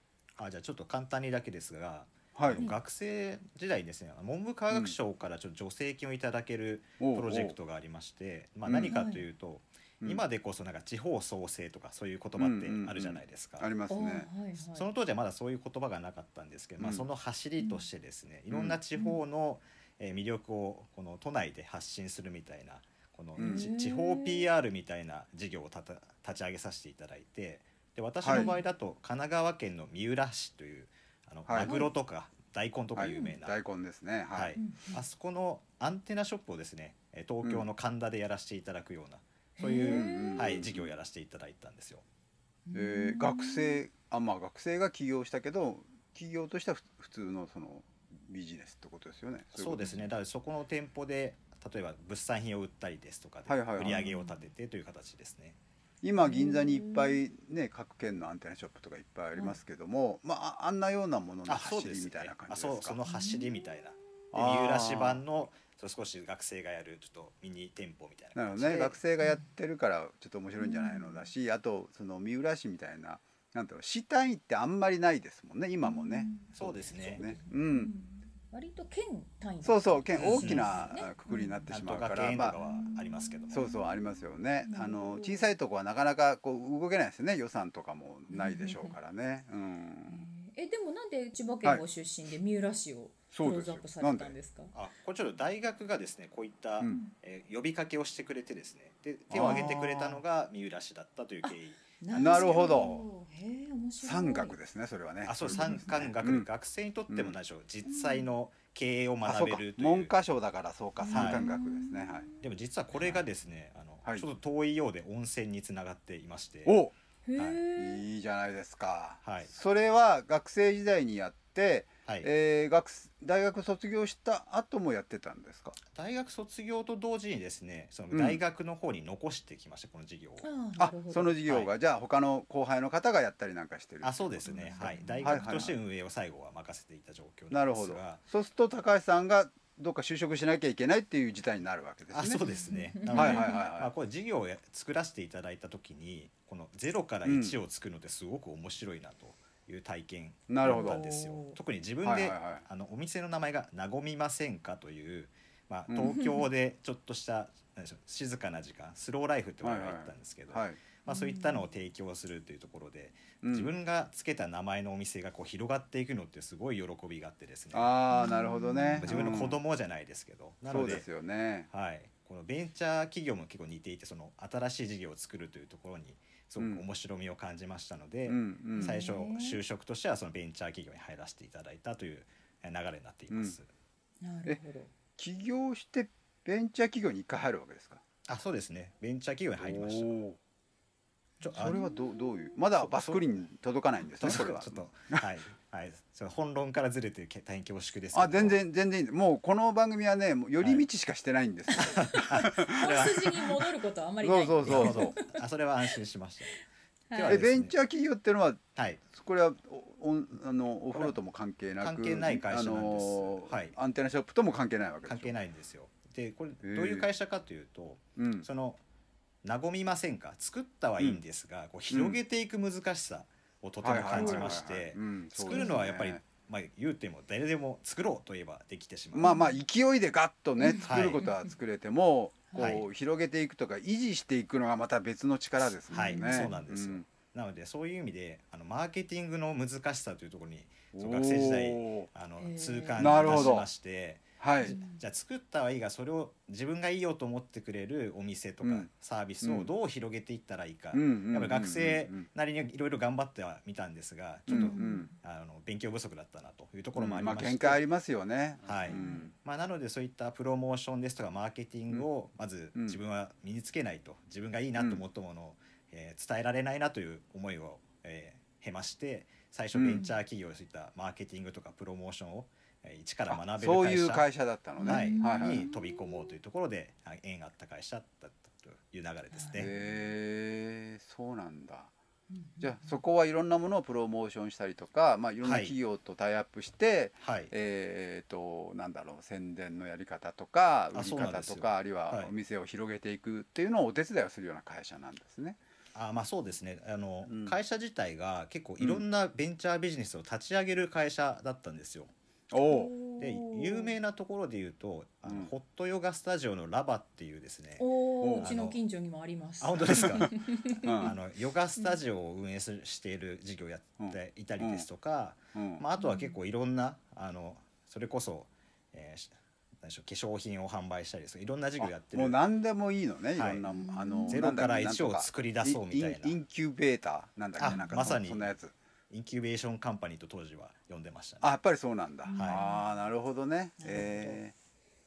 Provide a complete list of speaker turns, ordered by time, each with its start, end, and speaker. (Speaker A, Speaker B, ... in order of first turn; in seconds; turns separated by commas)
Speaker A: 0.4-13.7, Speaker B: 2.3-2.6, Speaker B: 4.7-5.0, Speaker B: 7.0-7.5, Speaker B: 8.6-9.0, Speaker C: 8.9-9.2, Speaker B: 12.4-14.3, Speaker C: 13.9-14.9, Speaker A: 14.6-33.6, Speaker B: 16.8-17.1, Speaker B: 18.5-18.8, Speaker B: 23.4-23.7, Speaker C: 23.4-24.5, Speaker B: 28.2-28.5, Speaker C: 28.3-28.6, Speaker B: 31.5-31.8, Speaker C: 31.6-31.9, Speaker B: 33.0-34.6, Speaker A: 34.3-42.0, Speaker C: 34.6-35.0, Speaker C: 39.6-40.6, Speaker B: 39.8-40.9, Speaker C: 42.6-43.8, Speaker B: 42.7-49.9, Speaker A: 49.5-55.6, Speaker B: 53.5-54.0, Speaker C: 53.8-54.4, Speaker B: 56.0-63.0, Speaker C: 56.2-57.2, Speaker A: 61.5-69.0, Speaker C: 63.0-63.5, Speaker B: 64.3-65.2, Speaker B: 68.3-77.9, Speaker C: 69.2-69.5, Speaker C: 70.6-71.2, Speaker C: 75.8-76.5, Speaker A: 76.5-77.2, Speaker C: 77.1-81.6, Speaker B: 79.6-82.5, Speaker A: 80.2-80.8, Speaker A: 81.7-83.6, Speaker C: 82.5-85.5, Speaker B: 83.5-90.3, Speaker C: 88.3-88.9, Speaker C: 90.1-94.7, Speaker B: 93.3-94.3, Speaker A: 94.7-102.9, Speaker C: 96.8-97.1, Speaker B: 99.3-100.2, Speaker C: 99.4-99.7, Speaker C: 101.5-104.5, Speaker B: 102.1-103.0, Speaker B: 104.0-106.5, Speaker A: 105.2-110.1, Speaker C: 105.5-105.9, Speaker B: 107.1-107.3, Speaker C: 107.8-108.3, Speaker B: 109.2-112.3, Speaker C: 111.0-112.4, Speaker A: 111.1-111.4, Speaker A: 112.4-116.8, Speaker B: 116.7-116.9, Speaker C: 117.2-118.0, Speaker A: 117.4-117.6, Speaker B: 117.8-125.8, Speaker A: 119.2-119.5, Speaker A: 125.9-130.4, Speaker B: 128.1-128.4, Speaker C: 130.4-131.4, Speaker B: 130.8-135.7, Speaker A: 134.0-138.2, Speaker C: 134.4-135.6, Speaker B: 137.5-142.4, Speaker A: 142.1-167.9, Speaker C: 142.5-143.6, Speaker B: 143.1-143.9, Speaker B: 147.2-147.6, Speaker B: 150.5-151.0, Speaker C: 150.6-151.6, Speaker B: 152.0-152.6, Speaker B: 155.9-156.2, Speaker C: 156.0-156.5, Speaker B: 159.6-160.8, Speaker C: 161.1-161.7, Speaker B: 163.4-163.7, Speaker B: 167.7-169.6, Speaker C: 168.1-169.1, Speaker A: 169.0-171.1, Speaker B: 170.7-171.7, Speaker A: 171.7-183.7, Speaker B: 178.3-179.0, Speaker C: 178.8-179.6, Speaker B: 183.3-183.6, Speaker C: 184.2-184.9, Speaker B: 185.2-188.0, Speaker A: 188.2-190.2, Speaker B: 189.6-190.4, Speaker A: 191.4-191.8, Speaker B: 191.5-195.2, Speaker C: 191.7-192.2, Speaker A: 192.8-193.2, Speaker A: 194.2-198.6, Speaker B: 198.1-202.9, Speaker C: 201.8-205.3, Speaker A: 201.8-203.4, Speaker B: 204.2-205.1, Speaker A: 204.6-206.6, Speaker C: 207.1-207.4, Speaker A: 207.1-207.7, Speaker B: 207.2-215.3, Speaker A: 208.8-209.0, Speaker A: 211.8-213.7, Speaker A: 215.1-218.8, Speaker B: 216.6-217.1, Speaker B: 218.2-218.5, Speaker A: 219.4-229.3, Speaker B: 221.9-222.2, Speaker B: 223.8-226.2, Speaker C: 224.1-224.5, Speaker C: 225.5-225.8, Speaker B: 229.1-237.1, Speaker C: 229.2-229.6, Speaker C: 230.6-231.5, Speaker A: 230.8-231.2, Speaker A: 232.6-232.8, Speaker C: 235.9-236.6, Speaker A: 235.9-257.8, Speaker B: 240.9-242.1, Speaker C: 242.4-243.6, Speaker B: 243.0-243.7, Speaker B: 244.4-244.8, Speaker C: 244.6-245.0, Speaker B: 248.6-248.9, Speaker B: 249.4-249.7, Speaker B: 250.9-252.3, Speaker B: 254.5-255.1, Speaker C: 254.5-255.1, Speaker B: 257.0-259.3, Speaker A: 258.6-274.2, Speaker C: 258.9-259.3, Speaker B: 269.7-270.1, Speaker B: 273.3-275.7, Speaker C: 274.8-276.1, Speaker A: 274.8-279.7, Speaker C: 279.3-280.1, Speaker B: 279.5-281.9, Speaker C: 282.3-283.0, Speaker B: 282.6-295.6, Speaker A: 285.4-285.7, Speaker A: 287.2-287.5, Speaker A: 290.9-292.3, Speaker A: 295.9-302.1, Speaker B: 297.2-297.6, Speaker B: 302.5-302.9, Speaker C: 302.6-303.9, Speaker A: 303.2-307.8, Speaker C: 307.8-311.1, Speaker B: 308.2-308.5, Speaker A: 308.4-308.8, Speaker A: 309.6-322.4, Speaker B: 310.9-311.1, Speaker B: 314.0-314.9, Speaker B: 315.5-315.8, Speaker C: 316.0-316.3, Speaker B: 321.8-328.7, Speaker A: 323.4-323.6, Speaker C: 323.7-324.4, Speaker A: 324.3-326.3, Speaker A: 327.6-328.5, Speaker C: 327.6-328.1, Speaker A: 329.1-331.5, Speaker B: 331.4-334.5, Speaker C: 332.3-332.9, Speaker A: 332.4-332.6, Speaker C: 333.8-334.4